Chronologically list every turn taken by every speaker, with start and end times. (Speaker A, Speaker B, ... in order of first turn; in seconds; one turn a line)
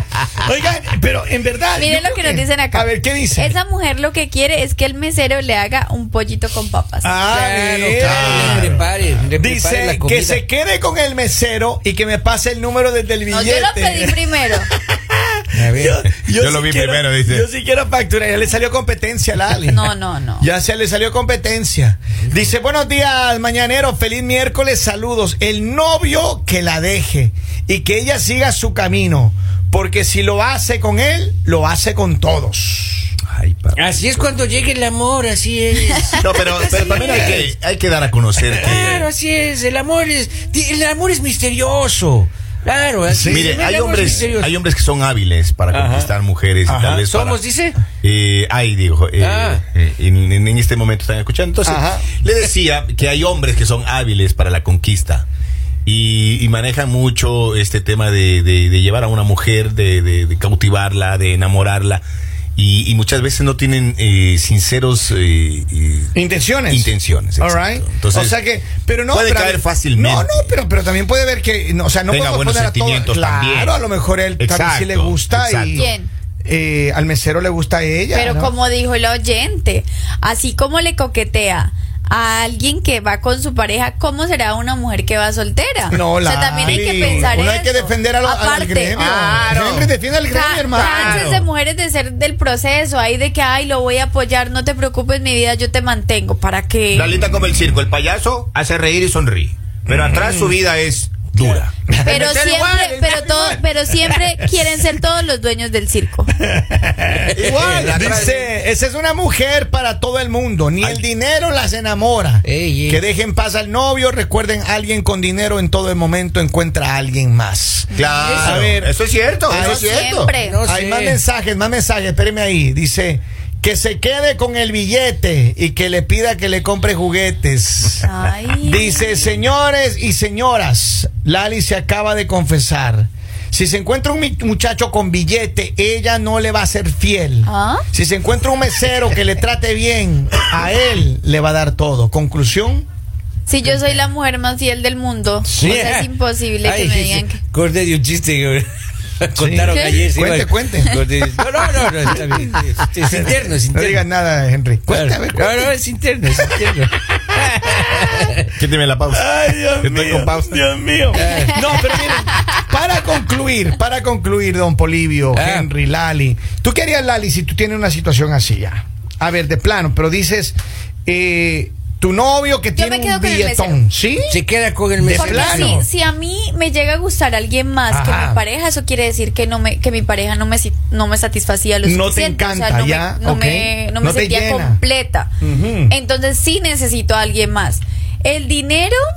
Speaker A: 0.4-3.6
Speaker B: 1.8-7.2
Speaker A: 7.0-8.8
Speaker C: 7.3-10.4
Speaker D: 8.0-8.8
Speaker A: 9.3-33.1
Speaker B: 13.3-14.7
Speaker C: 15.5-16.1
Speaker D: 16.3-17.5
Speaker B: 19.7-20.5
Speaker D: 33.3-34.2
Speaker C: 33.8-37.4
Speaker D: 36.2-39.1
Speaker A: 36.9-37.5
Speaker C: 38.4-44.5
Speaker A: 43.1-44.0
Speaker D: 43.3-47.4
Speaker A: 45.7-46.1
Speaker A: 46.7-47.0
Speaker C: 47.1-47.8
Speaker D: 48.0-55.3
Speaker C: 49.2-49.6
Speaker A: 51.6-52.1
Speaker D: 55.9-62.0
Speaker D: 62.6-66.1
Speaker A: 66.1-75.9
Speaker D: 66.7-68.4
Speaker D: 69.1-70.4
Speaker D: 72.1-73.8
Speaker D: 74.4-75.9
Speaker B: 75.7-76.1
Speaker A: 76.5-78.5
Speaker B: 78.1-89.0
Speaker A: 85.9-91.3
Speaker D: 86.6-87.3
Speaker D: 89.0-90.0
Speaker B: 90.3-97.2
Speaker D: 90.7-91.5
Speaker D: 96.9-103.5
Speaker A: 99.9-100.5
Speaker A: 101.9-102.3
Speaker B: 102.1-106.4
Speaker A: 103.3-103.6
Speaker A: 106.4-118.9
Speaker D: 107.3-108.5
Speaker C: 107.4-108.2
Speaker C: 112.5-113.0
Speaker D: 117.9-120.3
Speaker C: 118.2-118.7
Speaker A: 119.5-128.1
Speaker B: 119.5-120.6
Speaker C: 120.4-121.2
Speaker B: 128.0-129.3
Speaker A: 128.6-142.9
Speaker B: 137.5-137.8
Speaker B: 143.5-147.4
Speaker C: 145.5-148.7
Speaker C: 149.2-154.1
Speaker A: 149.3-151.0
Speaker B: 149.7-150.0
Speaker A: 152.1-152.4
Speaker A: 153.1-155.7
Speaker C: 154.9-158.4
Speaker D: 158.5-160.6
Speaker A: 159.1-174.4
Speaker C: 161.1-161.9
Speaker C: 165.3-165.7
Speaker B: 172.7-173.8
Speaker C: 174.3-175.8
Speaker A: 175.0-175.9
Speaker B: 175.2-185.3
Speaker A: 177.9-178.4
Speaker A: 181.8-184.8
Speaker A: 185.4-185.9
Speaker B: 185.9-189.0